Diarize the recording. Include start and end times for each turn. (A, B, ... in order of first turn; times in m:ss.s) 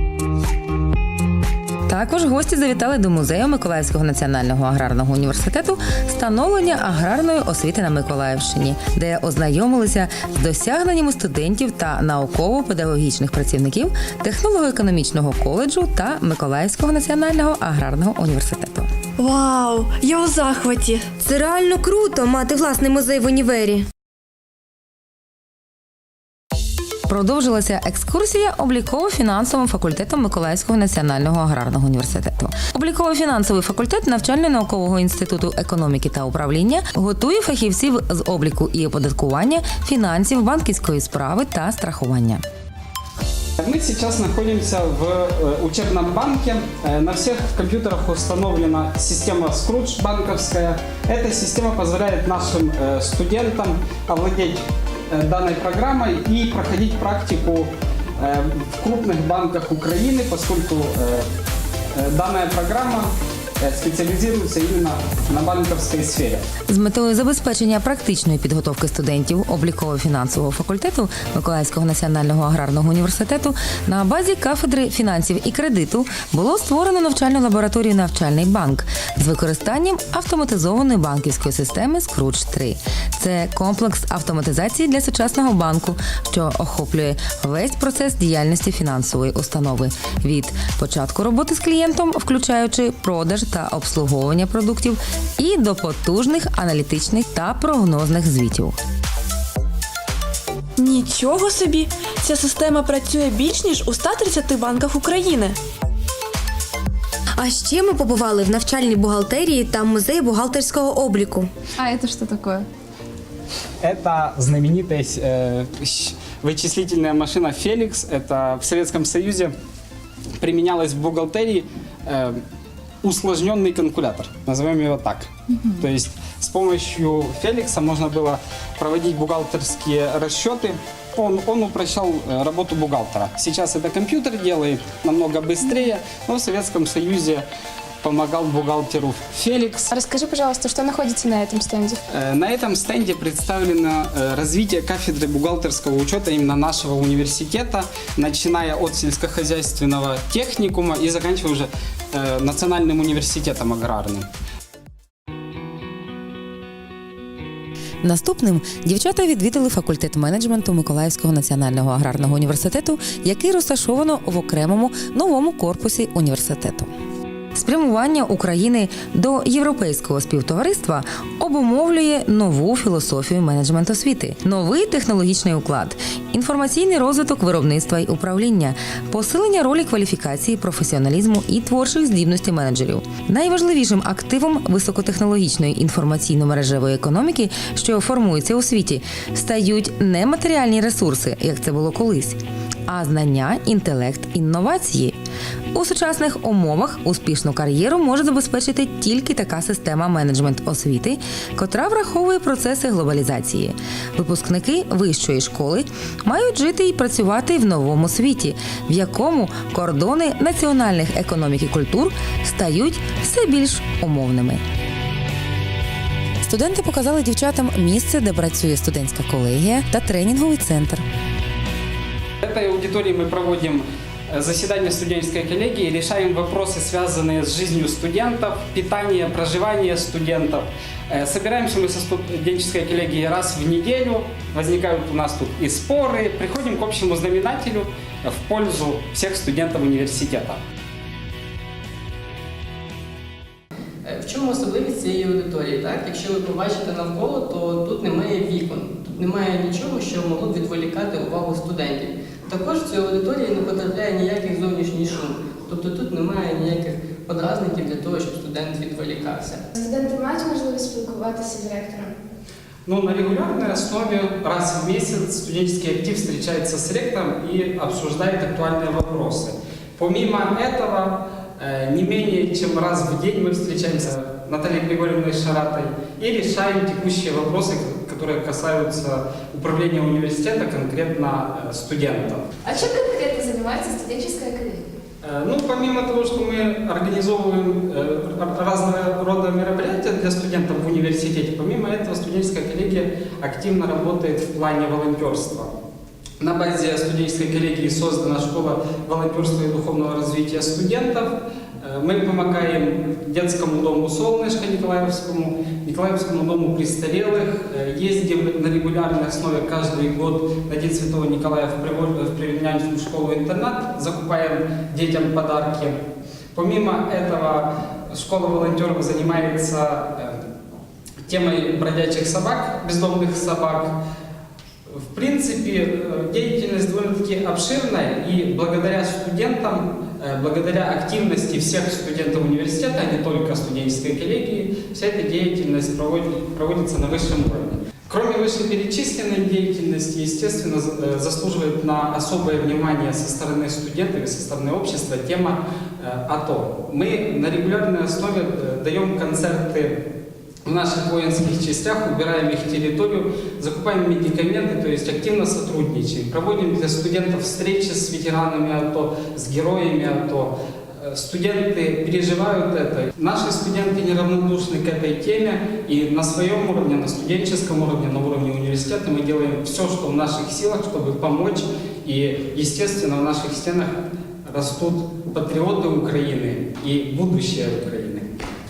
0:01.9-0:18.9 A
0:19.2-0:21.1 B
0:21.2-0:23.8 C
0:27.0-0:42.4 A
0:43.6-1:01.3 D
1:01.9-1:06.5 D
1:06.7-1:38.8 A
1:40.8-1:45.6 B
1:47.4-1:51.5 C
1:51.8-1:52.6 E
1:53.8-1:59.5 D
2:00.4-2:02.4 D
2:03.0-2:17.5 D
2:18.0-2:19.9 D
2:19.9-2:22.0 E
2:22.1-2:34.3 D
2:38.0-2:46.9 A
2:47.5-3:15.2 A
3:15.7-3:34.6 A
3:36.4-3:41.0 A
3:42.4-4:00.6 D
4:04.0-4:19.7 F
4:19.7-4:22.1 E
4:22.8-4:42.5 D
4:42.6-4:44.8 E
4:45.2-4:55.7 D
4:56.4-5:16.0 D
5:16.5-5:20.4 D
5:21.2-5:24.0 D
5:24.9-5:50.0 D
5:50.6-6:18.3 D